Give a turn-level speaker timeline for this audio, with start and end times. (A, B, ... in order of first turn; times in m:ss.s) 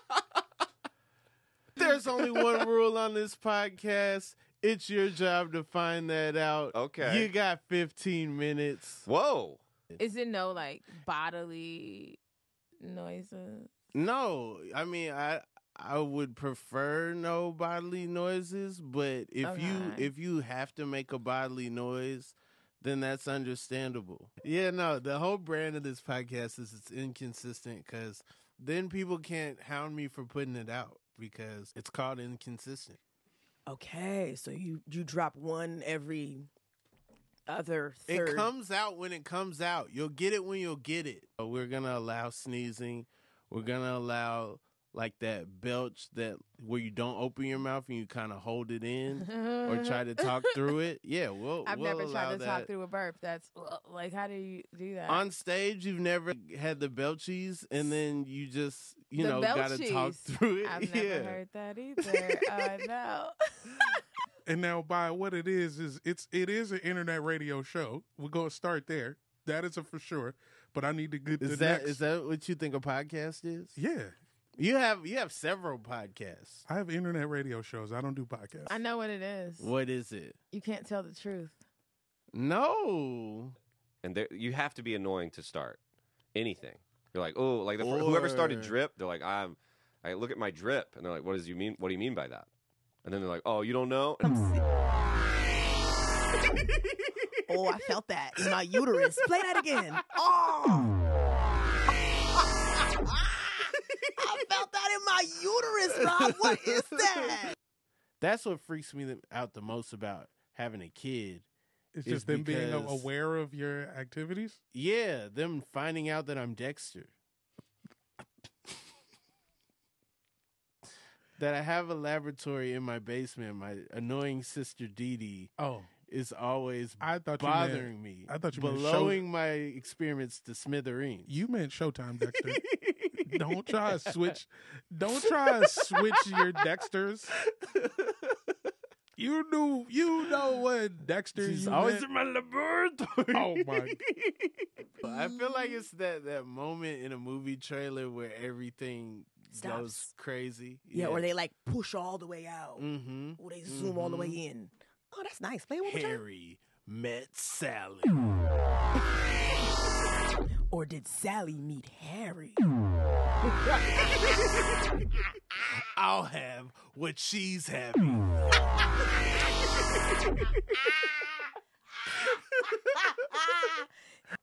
0:01.8-0:09.1 A
0:06.7-0:07.3 B
0:09.1-0:09.6 B
0:10.0-0:12.2 C
0:12.8-0:13.7 C
0:13.9-0:33.0 A
0:19.4-0:20.1 C
0:33.7-0:36.5 D
0:37.5-0:38.5 D
0:38.1-0:52.7 A
0:49.2-0:50.7 C
0:51.6-0:55.3 C
0:55.1-1:01.4 A
0:59.2-1:04.0 C
1:02.0-1:02.6 A
1:04.5-1:12.0 E
1:11.4-1:13.8 A
1:13.8-1:14.2 E
1:14.6-1:16.7 A
1:16.7-1:18.8 E
1:18.7-1:19.8 C
1:19.6-1:20.4 A
1:20.5-1:21.6 C
1:22.3-1:23.6 A
1:24.0-1:25.8 B
1:26.4-1:32.5 B
1:27.8-1:28.8 A
1:33.0-1:34.4 B
1:34.2-1:34.6 D
1:37.5-1:40.9 D
1:44.2-1:47.6 D
1:48.2-1:51.5 A
1:52.0-1:54.6 E
1:52.1-1:53.1 A
1:54.7-1:57.1 A
2:01.4-2:05.5 A
2:05.6-2:05.9 E
2:06.1-2:11.4 A
2:07.0-2:09.2 E
2:11.3-2:12.6 E
2:12.3-2:14.4 A
2:13.2-2:17.4 E
2:15.1-2:16.5 A
2:17.7-2:18.2 A
2:19.2-2:22.0 E
2:21.4-2:31.3 A
2:23.3-2:24.0 E
2:29.5-2:30.1 D
2:30.9-2:36.2 D
2:32.8-2:34.4 A
2:35.8-2:38.3 A
2:40.7-2:42.6 D
2:45.8-2:48.4 A
2:53.4-2:53.9 C